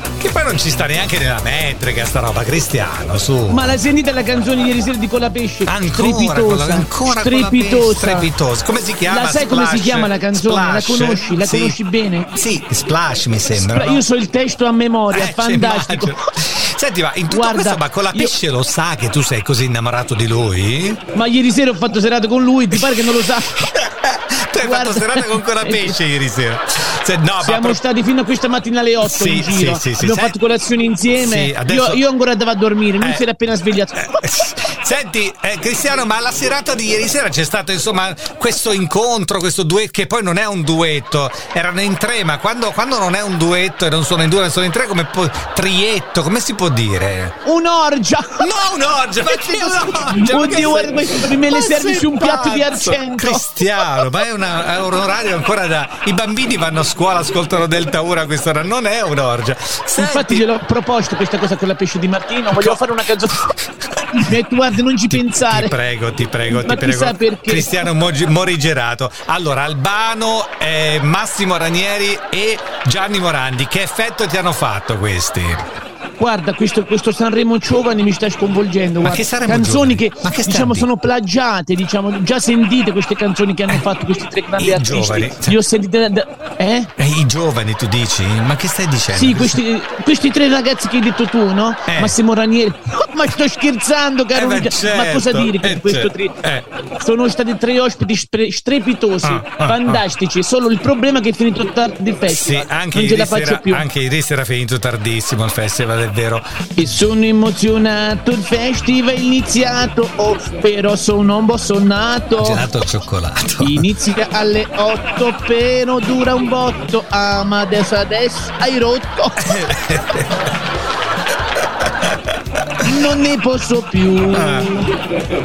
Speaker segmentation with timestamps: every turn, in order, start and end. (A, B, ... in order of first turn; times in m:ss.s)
0:00.2-0:03.7 A
0:03.5-0:08.3 B
0:05.7-0:11.8 A
0:09.1-0:12.3 B
0:12.4-0:14.0 A
0:13.5-0:16.2 B
0:15.1-0:21.0 A
0:17.3-0:18.3 B
0:21.1-0:23.7 B
0:22.8-0:27.8 A
0:24.6-0:26.0 B
0:27.4-0:34.2 B
0:29.0-0:30.3 A
0:31.2-0:32.0 A
0:33.9-0:47.3 A
0:47.4-0:48.5 B
0:48.4-1:00.4 A
0:49.3-0:53.4 B
1:00.0-1:03.5 B
1:02.5-1:02.9 A
1:04.1-1:05.7 B
1:05.1-1:15.6 A
1:06.5-1:07.9 B
1:16.2-1:26.9 B
1:19.0-1:20.9 A
1:24.6-1:25.6 A
1:27.0-1:29.6 A
1:29.1-1:36.4 B
1:31.9-1:32.2 A
1:34.4-1:36.7 A
1:37.0-1:43.9 B
1:39.2-1:40.0 A
1:42.3-1:46.4 A
1:46.8-1:52.6 B
1:52.4-1:53.8 A
1:53.6-1:59.4 B
1:59.4-2:00.3 A
2:01.8-2:02.4 A
2:02.8-2:04.9 B
2:04.3-2:04.7 A